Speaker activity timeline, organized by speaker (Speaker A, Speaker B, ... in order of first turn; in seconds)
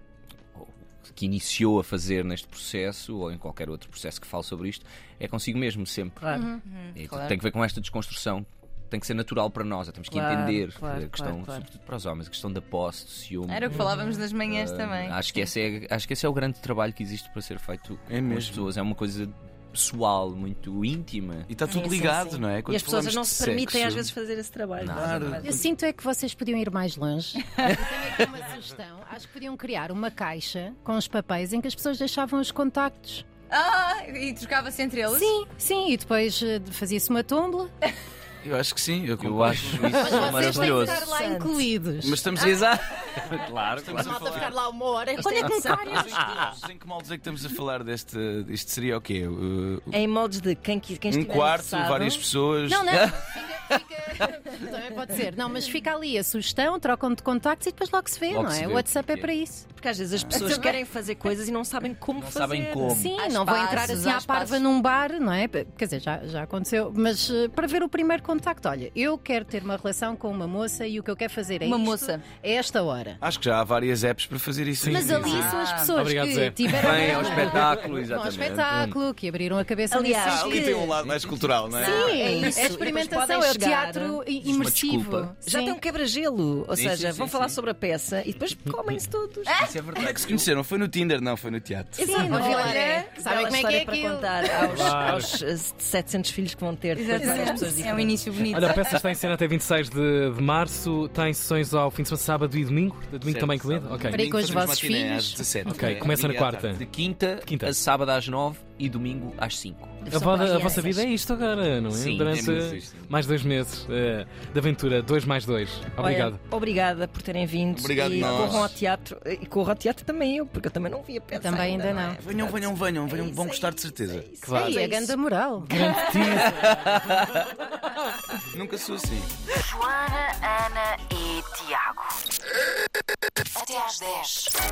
Speaker A: 0.5-6.3, 6.9-21.5, 24.8-25.4, 39.2-41.1, 42.4-44.5, 45.4-46.5, 52.9-54.3, 58.3-59.3, 62.1-63.1, 76.7-79.0, 81.0-81.5, 84.4-85.3, 86.7-87.6, 89.5-90.5, 106.8-110.1, 110.7-111.0, 111.9-113.0, 118.1-118.7, 126.4-127.2
Speaker B: 6.2-6.5, 10.1-11.7, 13.7-14.3, 21.7-25.6, 40.7-41.7, 45.1-46.5, 49.9-52.2, 59.8-63.1, 79.9-81.0, 81.6-84.2, 85.4-89.5, 92.0-98.2, 110.1-111.0, 116.0-125.1
Speaker C: 6.3-6.6, 25.4-33.2, 35.1-37.7, 39.9-42.3, 43.9-46.3, 52.7-59.7, 60.3-60.8, 62.8-73.2, 74.8-80.7, 81.8-85.8, 92.0-94.7, 97.1-97.9, 104.1-105.5, 121.3-122.2, 124.6-125.8
Speaker D: 6.6-7.4, 13.5-15.2, 21.7-21.9, 33.5-35.4, 63.1-64.6, 71.6-72.2, 75.4-76.0, 92.3-93.0, 96.9-99.0
Speaker E: 18.1-18.7, 21.5-24.1, 24.9-25.6, 38.4-40.6, 42.0-42.8, 43.8-44.5, 45.7-50.0, 51.1-53.1, 60.1-60.5, 73.2-75.5, 80.2-82.2, 90.0-92.0, 103.2-106.8, 112.3-113.1, 117.7-118.8, 122.2-124.2, 128.5-129.3
Speaker F: 74.8-77.0, 94.7-95.4, 98.5-104.6, 105.7-106.8, 107.4-107.8, 110.1-116.4, 124.4-124.8, 125.6-127.2
Speaker G: 129.5-132.1, 133.6-134.5